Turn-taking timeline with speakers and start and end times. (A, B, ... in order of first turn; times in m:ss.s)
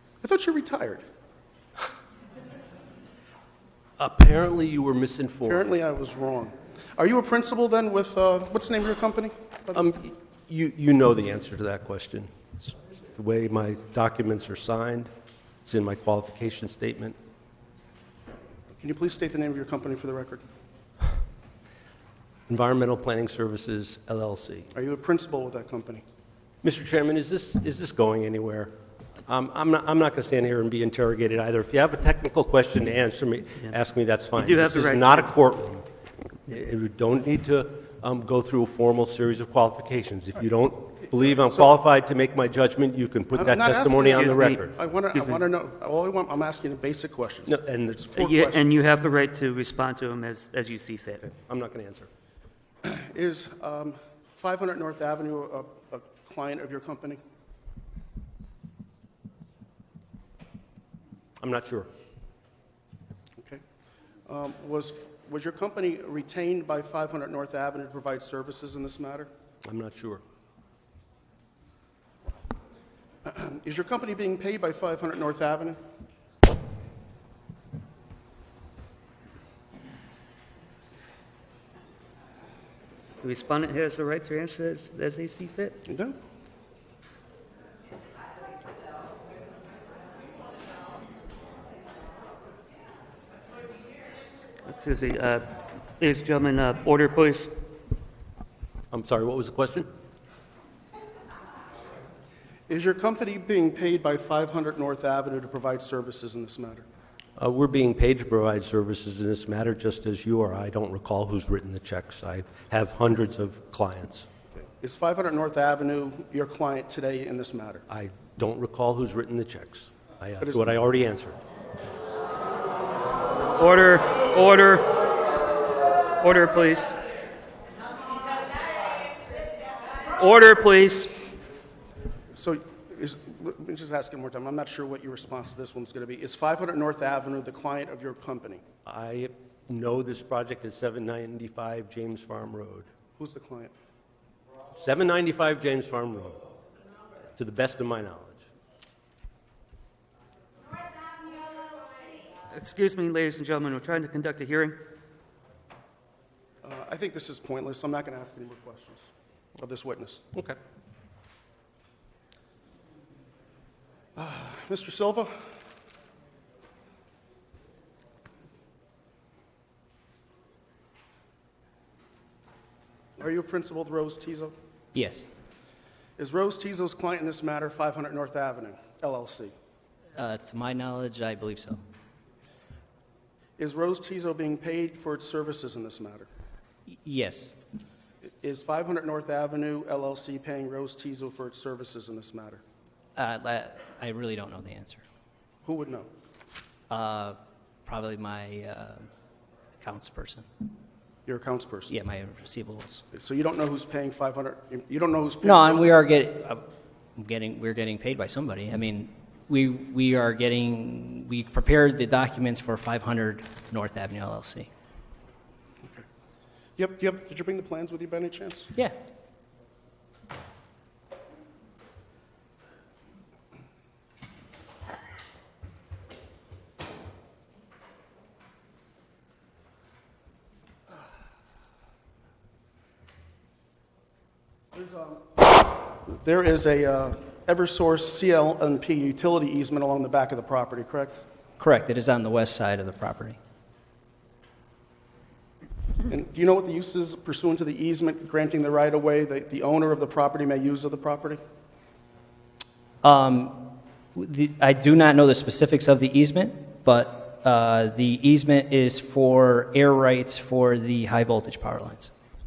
0:00.2-0:01.0 A
0:04.0-0:05.6 B
0:05.5-0:09.7 A
0:09.7-0:15.1 B
0:15.6-0:17.2 B
0:18.7-0:20.4 A
0:22.5-0:24.7 B
0:24.7-0:26.0 A
0:26.6-0:28.7 B
0:29.3-0:35.9 B
0:34.4-0:35.1 C
0:36.5-0:44.7 B
0:43.3-0:48.6 A
0:44.1-0:45.4 C
0:47.5-0:48.2 B
0:48.2-0:51.2 C
0:51.3-0:52.1 B
0:52.8-0:57.2 A
1:01.4-1:01.9 B
1:04.3-1:09.3 A
1:09.6-1:10.2 B
1:13.2-1:15.8 A
1:23.2-1:25.8 C
1:25.9-1:26.2 A
1:34.6-1:37.6 C
1:38.9-1:39.9 B
1:42.7-1:46.8 A
1:47.4-1:54.3 B
1:54.6-1:57.8 A
1:57.9-2:01.4 B
2:03.5-2:04.9 C
2:06.2-2:07.0 C
2:10.1-2:11.1 C
2:12.3-2:18.6 A
2:18.8-2:22.9 B
2:23.2-2:23.7 A
2:24.8-2:26.4 B
2:27.3-2:28.4 B
2:32.5-2:34.8 C
2:36.6-2:39.0 A
2:39.6-2:40.2 A
2:44.2-2:45.3 A
2:53.2-2:54.5 A
2:54.9-2:55.2 D
2:56.2-2:59.5 A
3:00.2-3:01.8 D
3:03.6-3:06.3 A
3:06.9-3:07.5 D
3:08.2-3:12.6 A
3:13.2-3:15.0 D
3:15.6-3:16.1 A
3:16.9-3:19.1 D
3:19.8-3:20.4 D
3:21.2-3:21.9 A
3:21.9-3:23.0 D
3:23.1-3:25.9 A
3:25.4-3:26.6 D
3:27.2-3:34.7 D
3:36.8-3:38.7 A
3:56.1-4:01.2 A
4:01.6-4:03.4 D
4:06.1-4:11.4 A
4:13.0-4:22.1 D